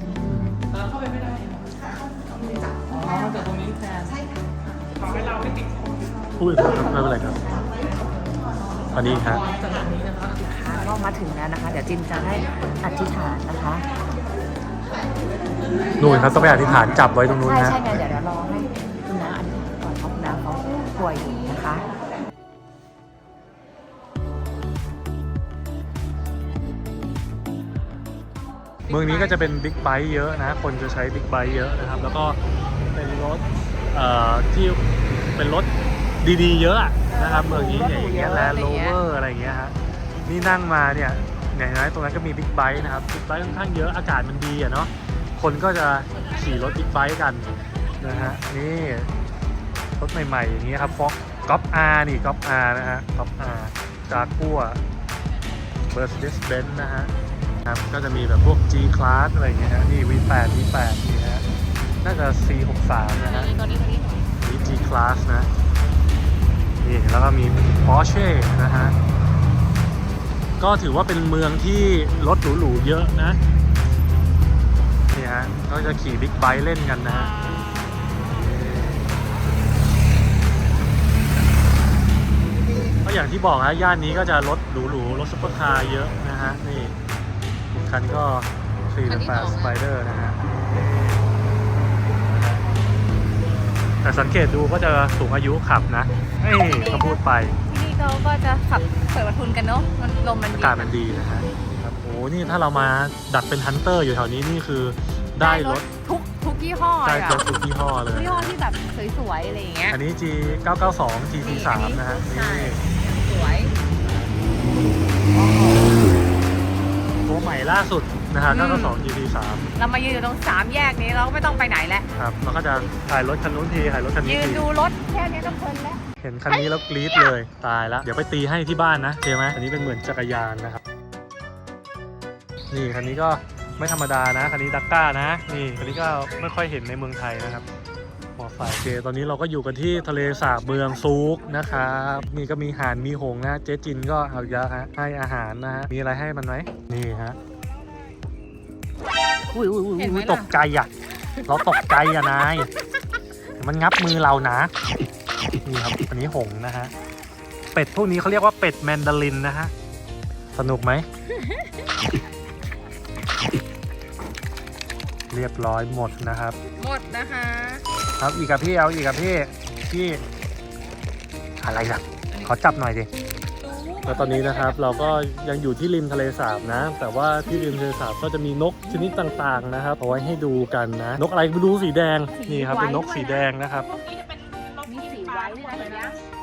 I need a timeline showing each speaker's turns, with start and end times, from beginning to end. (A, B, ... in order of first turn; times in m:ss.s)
0:00.2-0:00.6 A
0:00.7-0:01.6 B
0:01.7-0:05.2 C
0:02.9-0:04.1 B
0:05.0-0:05.7 D
0:06.4-0:07.4 A
0:06.6-0:09.1 C
0:08.9-0:09.4 A
0:09.1-0:10.9 B
0:10.4-0:13.8 E
0:15.9-0:21.8 E
0:16.0-0:17.8 A
0:28.9-0:32.4 A
0:28.9-0:29.4 E
0:32.9-0:35.7 A
0:36.2-0:39.7 A
0:37.1-0:39.0 E
0:40.2-0:47.5 A
0:48.0-0:49.1 A
0:50.0-0:54.8 A
0:55.9-0:57.1 A
0:57.6-1:01.4 A
1:02.0-1:03.5 A
1:03.1-1:04.3 E
1:04.4-1:05.5 A
1:06.8-1:09.0 A
1:10.6-1:13.4 A
1:15.1-1:17.3 A
1:17.1-1:18.5 E
1:18.3-1:19.1 A
1:23.0-1:26.9 A
1:27.7-1:30.4 A
1:29.1-1:29.8 E
1:32.3-1:32.6 A
1:34.0-1:37.6 A
1:36.6-1:40.9 E
1:40.5-1:45.8 A
1:45.4-1:47.4 E
1:47.0-1:48.5 A
1:48.1-1:50.0 E
1:49.9-1:52.8 A
1:51.4-1:53.7 E
1:54.0-1:54.4 A
1:55.3-1:56.2 E
1:57.2-1:59.7 A
1:58.5-1:59.0 E
1:59.8-2:02.1 E
2:02.2-2:04.6 A
2:04.2-2:06.6 E
2:06.2-2:10.8 A
2:12.7-2:17.7 A
2:18.4-2:27.4 A
2:29.6-2:30.9 A
2:29.6-2:30.5 E
2:31.5-2:32.7 A
2:33.6-2:34.7 A
2:35.6-2:36.9 A
2:37.7-2:39.7 A
2:40.5-2:41.1 A
2:41.3-2:41.7 E
2:45.3-2:46.6 A
2:46.8-2:47.8 E
2:48.2-2:50.2 A
2:51.6-2:53.1 A
2:53.6-2:55.1 E
2:54.0-3:03.9 A
3:02.3-3:03.5 E
3:03.8-3:06.2 D
3:04.8-3:06.2 E